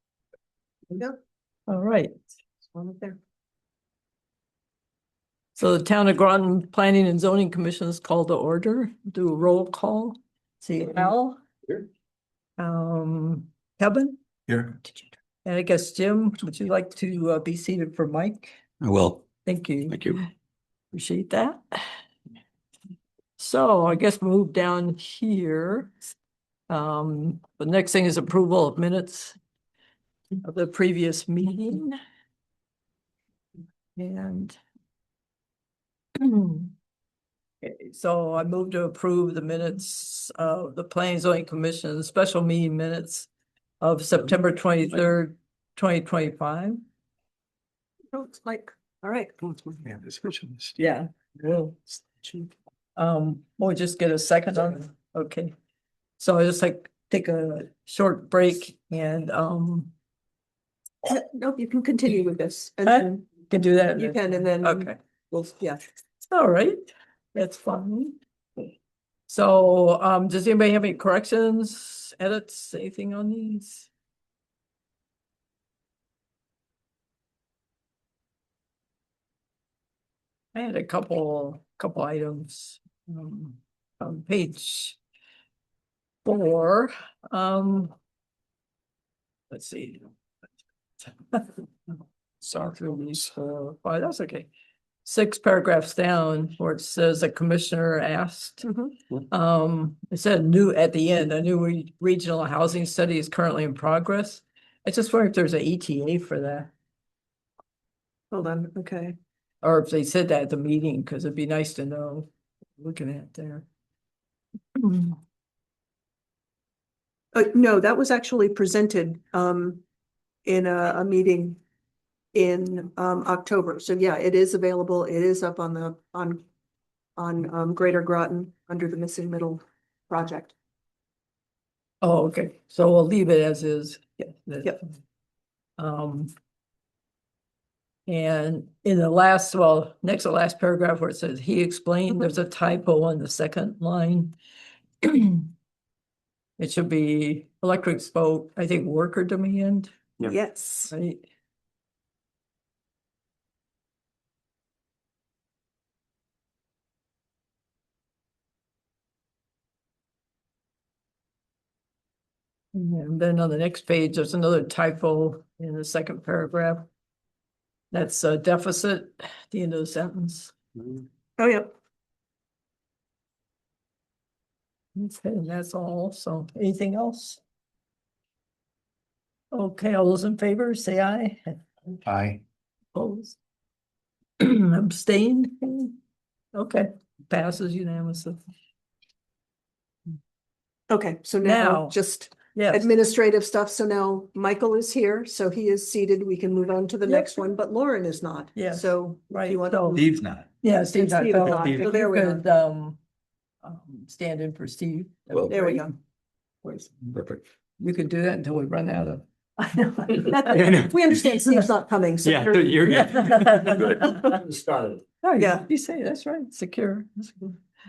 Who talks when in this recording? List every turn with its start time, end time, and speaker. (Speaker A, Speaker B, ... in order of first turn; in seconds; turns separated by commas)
Speaker A: 0.9-1.2, Speaker B: 1.7-2.1, Speaker A: 2.7-3.2, Speaker B: 5.6-11.4, Speaker B: 12.6-14.2, Speaker C: 14.5-14.8, Speaker B: 15.4-18.6, Speaker C: 18.8-19.2, Speaker B: 19.4-20.3, Speaker C: 19.9-20.2, Speaker B: 20.9-21.9, Speaker B: 23.4-25.9, Speaker B: 26.7-29.4, Speaker B: 30.4-32.0, Speaker B: 34.0-34.6, Speaker B: 36.2-36.7, Speaker B: 37.6-43.3, Speaker B: 43.8-46.8, Speaker A: 48.1-49.9, Speaker B: 50.8-51.8, Speaker B: 53.0-55.5, Speaker B: 56.2-59.9, Speaker A: 61.0-63.3, Speaker B: 62.9-65.0, Speaker A: 64.0-65.8, Speaker B: 66.3-68.2, Speaker B: 69.3-73.9, Speaker B: 80.5-85.0, Speaker B: 86.2-87.9, Speaker B: 89.5-90.1, Speaker B: 91.1-91.6, Speaker B: 92.4-94.5, Speaker B: 95.0-98.7, Speaker A: 98.6-98.9, Speaker B: 99.3-106.7, Speaker A: 108.3-109.2, Speaker B: 109.6-113.7, Speaker B: 114.8-115.2, Speaker A: 117.3-119.8, Speaker A: 120.5-121.6, Speaker A: 122.3-126.4, Speaker A: 127.2-130.6, Speaker B: 132.0-135.0, Speaker B: 135.8-136.3, Speaker B: 138.1-144.3, Speaker B: 145.0-145.5, Speaker B: 146.6-149.9, Speaker A: 150.3-150.9, Speaker B: 150.9-151.3, Speaker B: 162.7-166.9, Speaker B: 167.9-170.5, Speaker A: 171.4-171.8, Speaker B: 174.9-177.4, Speaker B: 179.5-181.6, Speaker B: 182.9-183.4, Speaker B: 184.4-186.0, Speaker B: 186.5-188.4, Speaker A: 190.9-200.1, Speaker B: 191.4-192.0, Speaker B: 192.5-192.9, Speaker B: 197.1-197.4, Speaker B: 198.6-200.1, Speaker C: 200.0-200.5, Speaker B: 200.6-203.0, Speaker A: 200.9-202.4, Speaker C: 201.6-201.8, Speaker B: 203.6-206.0, Speaker A: 205.5-205.9, Speaker B: 206.6-206.9, Speaker C: 207.1-207.4, Speaker B: 207.8-210.5, Speaker A: 210.1-213.2, Speaker C: 210.5-211.1, Speaker C: 212.2-214.0, Speaker B: 212.9-214.4, Speaker A: 213.9-214.4, Speaker B: 215.2-217.6, Speaker A: 215.4-215.7